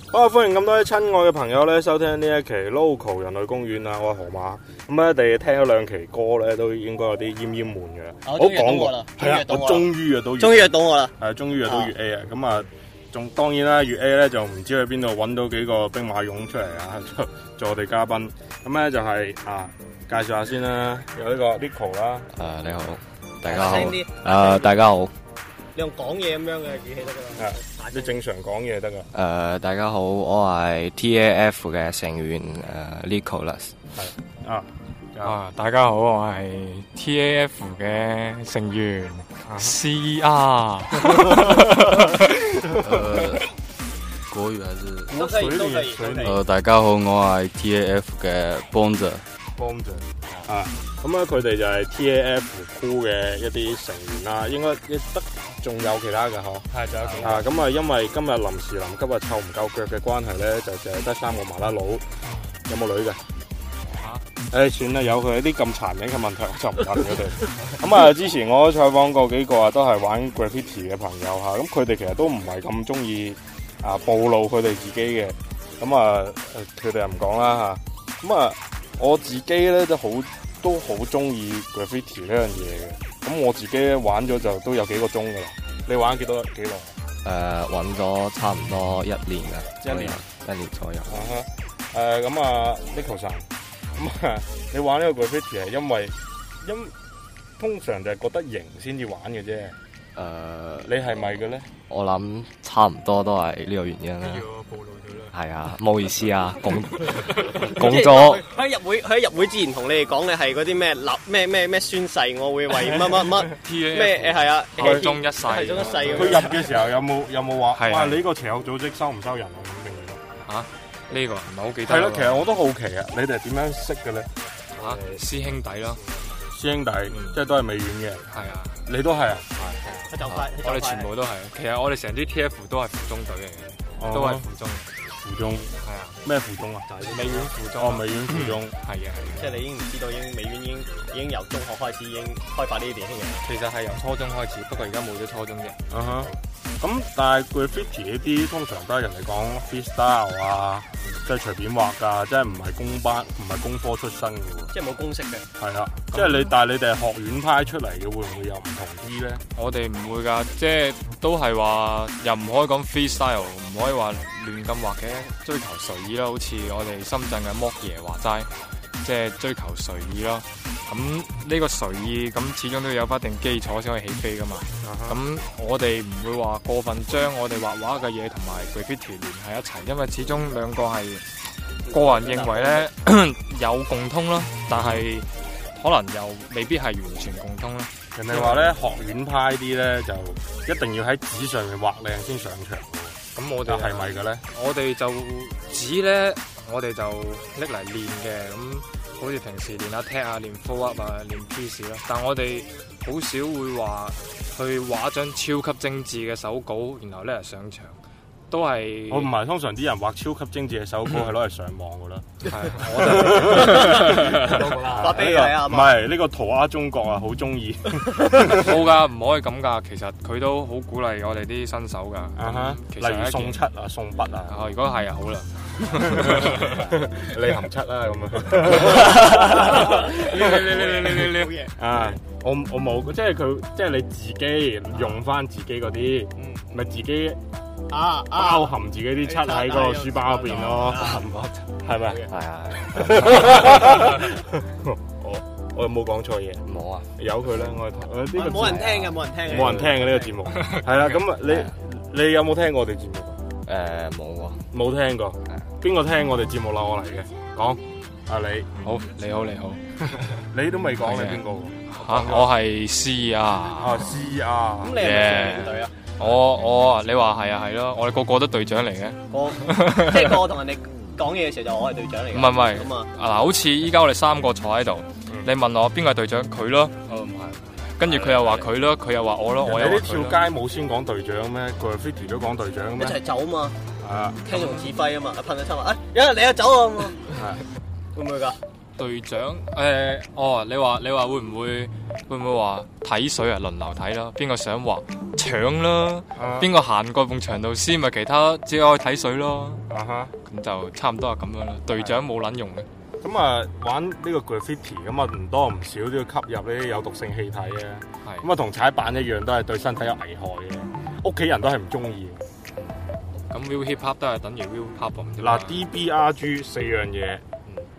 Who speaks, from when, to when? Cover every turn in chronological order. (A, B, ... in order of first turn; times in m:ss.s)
0:00.1-0:22.3 A
0:08.2-0:09.9 B
0:10.4-0:11.1 B
0:11.7-0:11.9 B
0:22.3-0:25.1 C
0:23.5-0:24.8 B
0:25.8-0:28.2 B
0:27.4-0:29.1 A
0:29.1-0:33.8 C
0:34.0-0:35.4 A
0:35.2-0:42.2 D
0:39.4-0:39.8 A
0:42.8-0:43.5 E
0:44.3-0:45.2 E
0:45.1-0:46.4 A
0:45.1-0:46.4 B
0:46.2-0:49.3 E
0:49.6-1:02.1 A
0:56.7-0:57.5 D
1:02.6-1:03.2 A
1:04.0-1:04.3 D
1:04.5-1:27.0 A
1:27.2-1:31.2 C
1:29.8-1:30.2 A
1:31.1-1:36.9 A
1:37.6-1:39.8 A
1:40.2-1:40.9 C
1:40.8-1:41.7 A
1:41.9-1:44.5 C
1:44.2-1:45.1 A
1:45.3-1:48.4 C
1:47.7-1:56.6 B
1:53.6-1:56.5 D
1:54.8-1:55.1 A
1:56.1-2:00.2 A
1:57.7-1:58.2 D
2:00.4-2:02.5 D
2:01.9-2:04.3 A
2:04.8-2:06.0 D
2:06.5-2:08.2 A
2:07.1-2:07.4 D
2:08.3-2:08.8 D
2:08.9-2:09.5 A
2:09.6-2:14.9 D
2:10.0-2:11.1 B
2:14.0-2:14.5 A
2:15.2-2:15.7 A
2:15.8-2:16.2 D
2:16.2-2:18.8 A
2:16.9-2:17.5 B
2:17.1-2:19.6 D
2:19.4-2:23.4 B
2:23.4-2:25.8 D
2:25.9-2:34.7 A
2:34.7-2:35.5 B
2:35.6-2:39.4 A
2:36.1-2:36.5 D
2:39.6-3:01.3 D
2:54.8-2:55.2 A
3:01.8-3:02.9 B
3:01.9-3:08.8 D
3:04.7-3:05.1 A
3:08.2-3:14.4 A
3:13.3-3:28.0 D
3:28.5-3:29.3 D
3:29.1-3:38.7 A
3:32.5-3:35.2 D
3:34.5-3:36.0 B
3:38.5-3:43.6 D
3:42.4-3:44.7 A
3:44.5-3:46.8 D
3:46.1-3:50.7 A
3:49.2-3:51.8 B
3:49.3-3:51.6 D
3:51.8-3:57.4 A
3:56.4-3:56.7 B
3:57.9-3:58.7 B
3:58.3-4:02.2 A
3:59.2-4:01.4 B
4:02.0-4:02.4 B
4:02.3-4:04.0 C
4:02.8-4:08.8 A
4:06.7-4:07.1 C
4:08.3-4:10.3 B
4:08.6-4:10.0 C
4:09.5-4:13.4 A
4:10.5-4:10.9 D
4:11.5-4:11.7 C
4:13.6-4:14.7 C
4:14.7-4:18.7 A
4:18.8-4:19.8 D
4:20.5-4:22.6 A
4:21.0-4:24.1 D
4:23.8-4:25.0 A
4:24.8-4:26.2 B
4:25.0-4:30.4 D
4:29.3-4:33.1 B
4:32.3-4:37.0 D
4:37.1-4:37.8 E
4:37.8-4:40.4 D
4:39.6-4:43.2 A
4:43.0-4:43.8 B
4:44.0-4:44.5 A
4:44.5-4:47.3 B
4:44.5-4:44.9 D
4:47.4-4:47.6 A
4:48.1-4:48.6 B
4:49.0-4:59.8 D
4:56.4-4:56.7 A
4:59.9-5:00.3 A
5:00.4-5:02.9 D
5:01.9-5:02.2 A
5:03.2-5:12.4 A
5:13.5-5:15.8 D
5:15.4-5:17.4 A